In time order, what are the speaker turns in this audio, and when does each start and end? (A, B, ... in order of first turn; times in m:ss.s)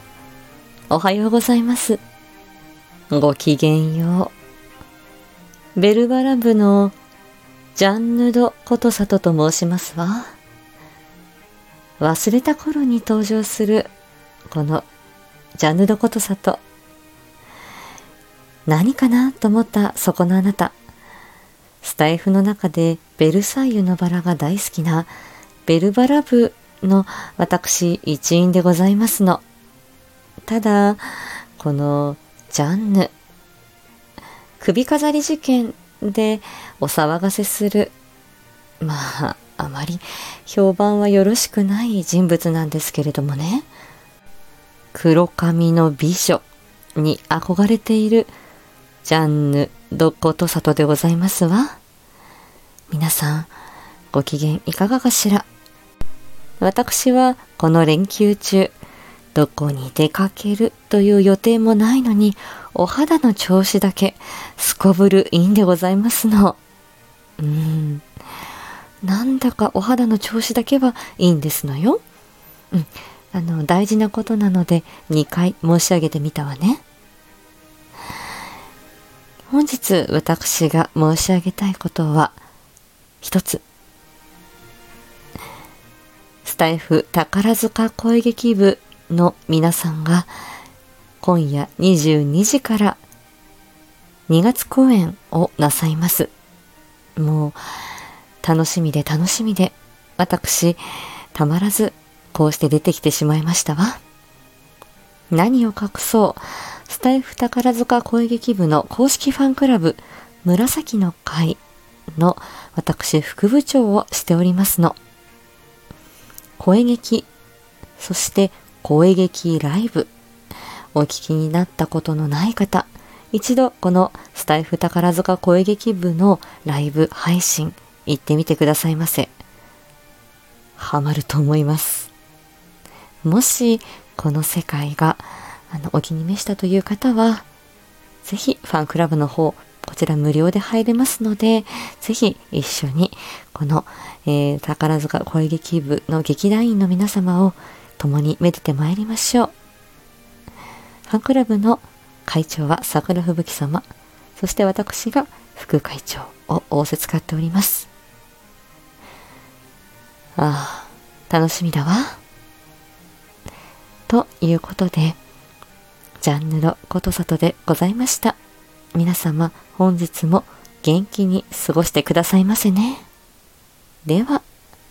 0:00.9-0:02.0 A
0:03.1-0:04.3 A
0:05.8-0:07.0 A
0:07.8-0:10.4 A
0:12.0-0:13.9 A
0:14.5-0:14.9 A
0:15.6-0:16.6 A
0:18.7-0:20.8 A
0:21.8-0:25.1 A
0:25.7-0:29.4 A
0:30.5-0:33.1 A
0:34.6-0:37.9 A
0:38.8-0:43.7 A
0:44.9-0:46.4 A
0:47.0-0:48.3 A
0:49.0-0:51.8 A
0:52.9-0:53.5 A
0:54.1-0:55.5 A
0:56.6-0:58.7 A
0:59.4-1:06.6 A
1:07.4-1:08.0 A
1:09.0-1:12.0 A
1:12.7-1:16.8 A
1:19.5-1:22.4 A
1:23.2-1:23.6 A
1:26.4-1:30.3 A
1:31.2-1:33.0 A
1:34.3-1:36.3 A
1:37.2-1:37.6 A
1:38.4-1:40.8 A
1:41.3-1:44.0 A
1:45.3-1:51.6 A
1:52.2-1:55.0 A
1:56.6-1:57.3 A
1:58.0-2:00.1 A
2:01.0-2:09.3 A
2:10.8-2:12.1 A
2:13.2-2:17.5 A
2:18.2-2:29.5 A
2:31.1-2:37.9 A
2:40.4-2:42.2 A
2:44.1-2:45.2 A
2:46.2-2:48.4 A
2:48.9-2:53.1 A
2:54.0-2:54.4 A